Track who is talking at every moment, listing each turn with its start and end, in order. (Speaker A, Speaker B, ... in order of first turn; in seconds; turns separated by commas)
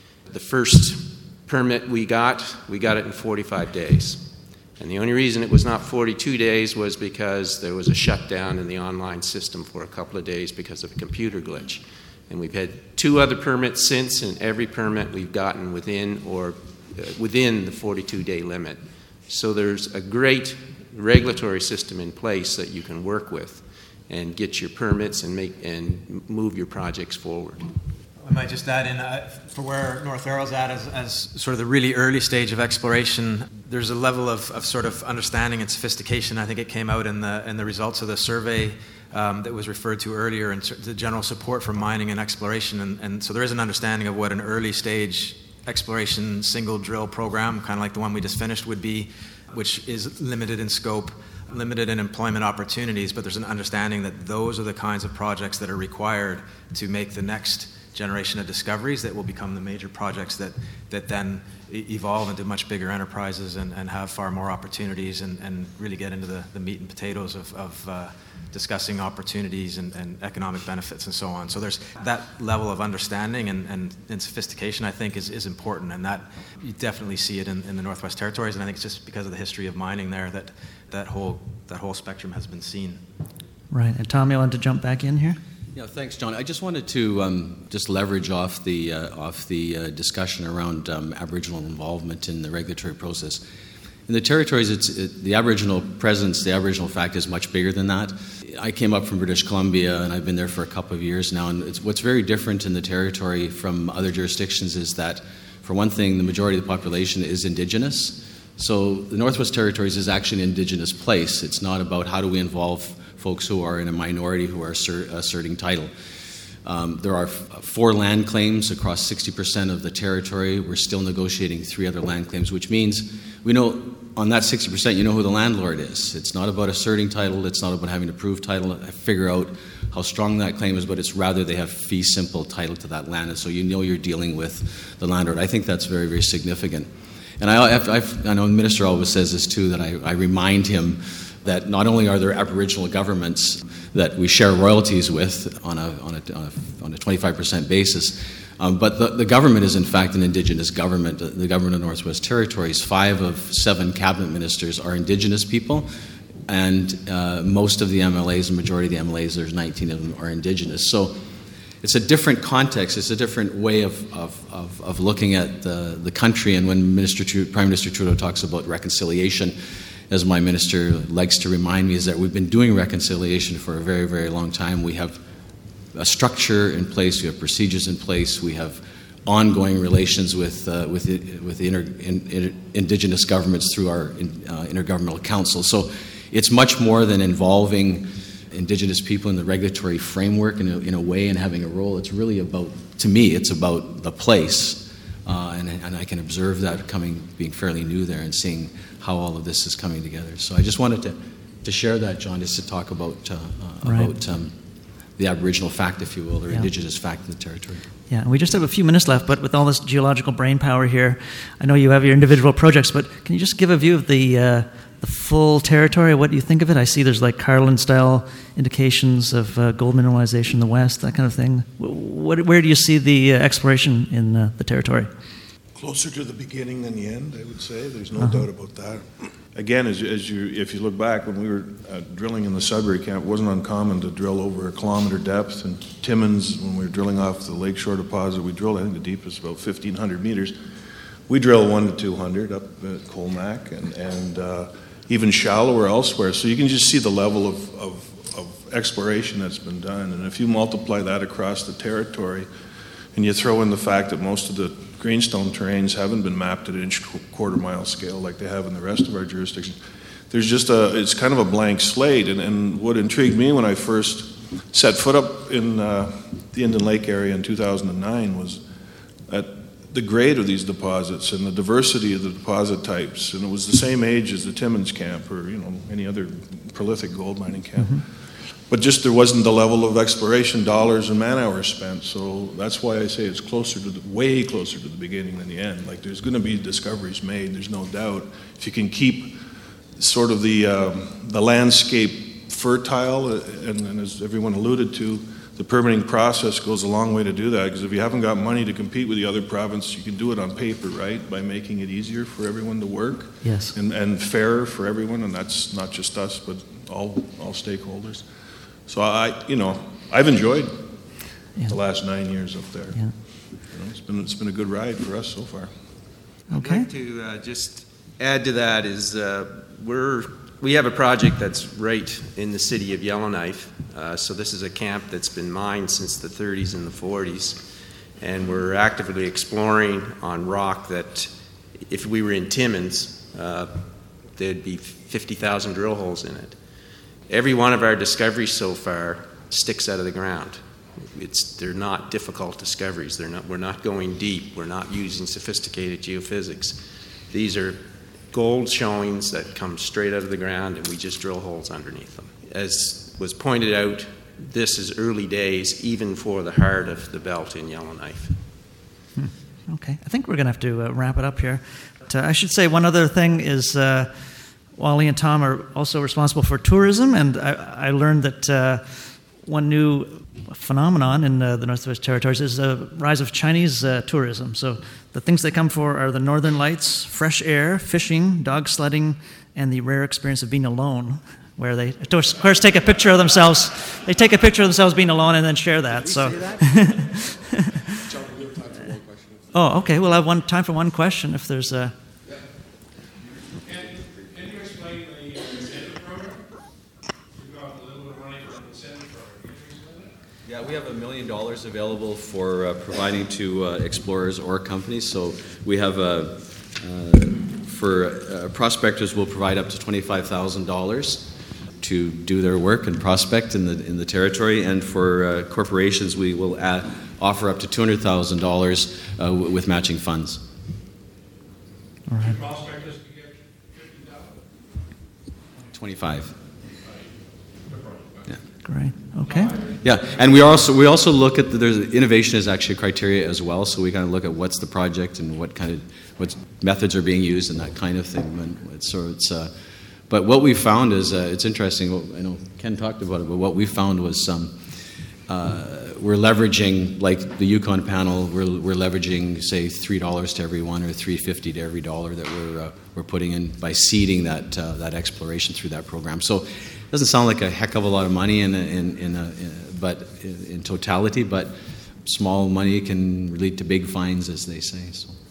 Speaker A: 0.3-27.7, Speaker B: 28.2-83.0, Speaker C: 83.7-85.4, Speaker D: 85.7-93.4, Speaker D: 94.1-115.9, Speaker D: 116.6-155.9, Speaker D: 156.4-161.2, Speaker D: 161.8-169.6, Speaker D: 170.1-175.2, Speaker D: 175.9-204.6, Speaker C: 203.8-204.1, Speaker D: 205.2-207.9, Speaker C: 208.1-225.1, Speaker E: 225.7-240.6, Speaker C: 228.2-228.5, Speaker E: 241.3-252.5, Speaker E: 253.1-259.8, Speaker E: 260.3-268.6, Speaker E: 269.3-308.3, Speaker C: 277.8-278.0, Speaker C: 303.4-303.8, Speaker E: 308.9-311.1, Speaker E: 311.6-315.7, Speaker C: 316.5-316.9, Speaker A: 316.5-331.3, Speaker A: 331.9-336.6, Speaker A: 337.3-358.4, Speaker C: 359.1-388.1, Speaker C: 389.5-391.9, Speaker D: 400.4-420.4, Speaker C: 422.1-422.6, Speaker D: 425.7-426.4, Speaker C: 428.6-429.6, Speaker D: 429.6-439.5, Speaker D: 440.1-465.1